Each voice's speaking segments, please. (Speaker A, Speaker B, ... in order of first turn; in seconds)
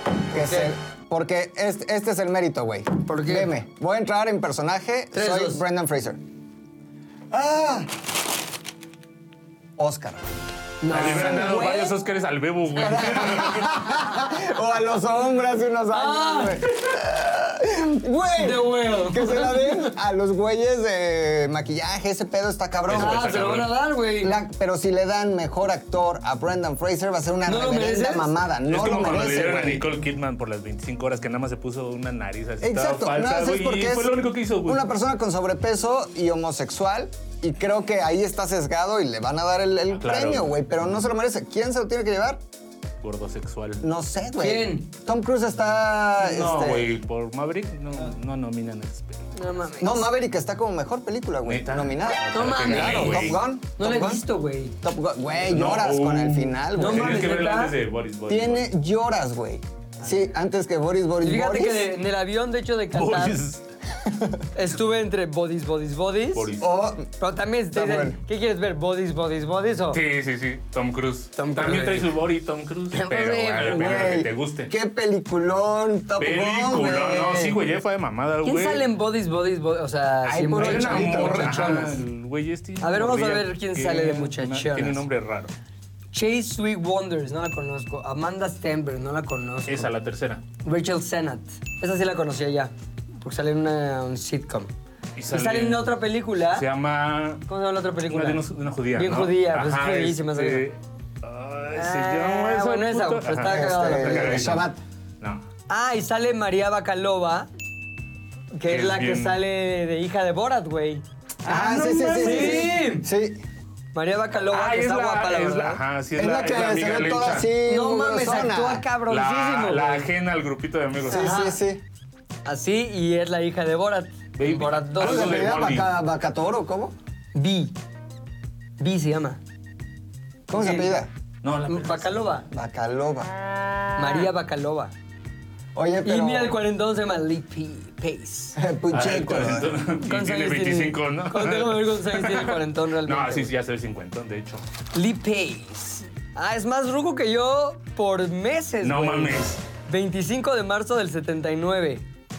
Speaker A: 0.3-6.2, 7.3-7.9, 9.8-10.3, 11.0-11.3, 12.8-23.6, 24.2-29.9, 32.6-42.4, 43.8-47.0, 49.8-54.2, 54.8-57.4, 58.3-61.9, 66.6-67.1, 67.7-68.2, 73.7-77.6, 80.2-82.0, 103.4-104.8, 111.5-113.4, 116.1-118.8, 121.0-121.8, 125.0-126.9, 130.5-131.1, 132.5-133.3, 135.7-136.6, 138.6-139.7
Speaker B: 0.3-0.7, 3.0-3.5, 5.1-5.6, 10.8-11.9, 15.9-16.6, 18.3-19.9, 22.9-24.3, 27.4-28.3, 44.4-44.9, 49.4-50.0, 52.3-54.7, 56.7-57.7, 61.2-63.4, 64.5-66.5, 67.2-70.0, 71.3-72.1, 72.9-74.1, 78.4-82.0, 82.8-85.0, 86.1-89.9, 90.6-94.7, 95.3-96.6, 97.5-98.4, 98.9-100.7, 101.7-104.6, 105.7-107.5, 108.5-113.1, 113.9-115.8, 117.7-120.1, 121.1-121.6, 122.5-125.4, 127.3-127.7, 128.8-129.4, 130.5-130.9, 131.7-132.4, 134.0-134.9, 136.0-138.6, 140.0-143.5, 144.9-152.0
Speaker C: 10.9-13.8, 22.9-23.7, 28.7-34.9, 39.9-40.6, 43.0-43.8, 46.2-49.3, 51.4-53.4, 55.5-58.7, 62.9-63.6, 66.3-66.7, 69.9-74.7, 76.2-78.9, 80.5-85.5, 89.7-90.4, 95.2-95.9, 96.5-97.5, 98.0-105.4, 108.7-109.4, 111.5-112.7, 114.5-117.5, 119.1-121.3, 124.3-125.9, 131.4-132.3, 138.9-144.6, 148.8-149.6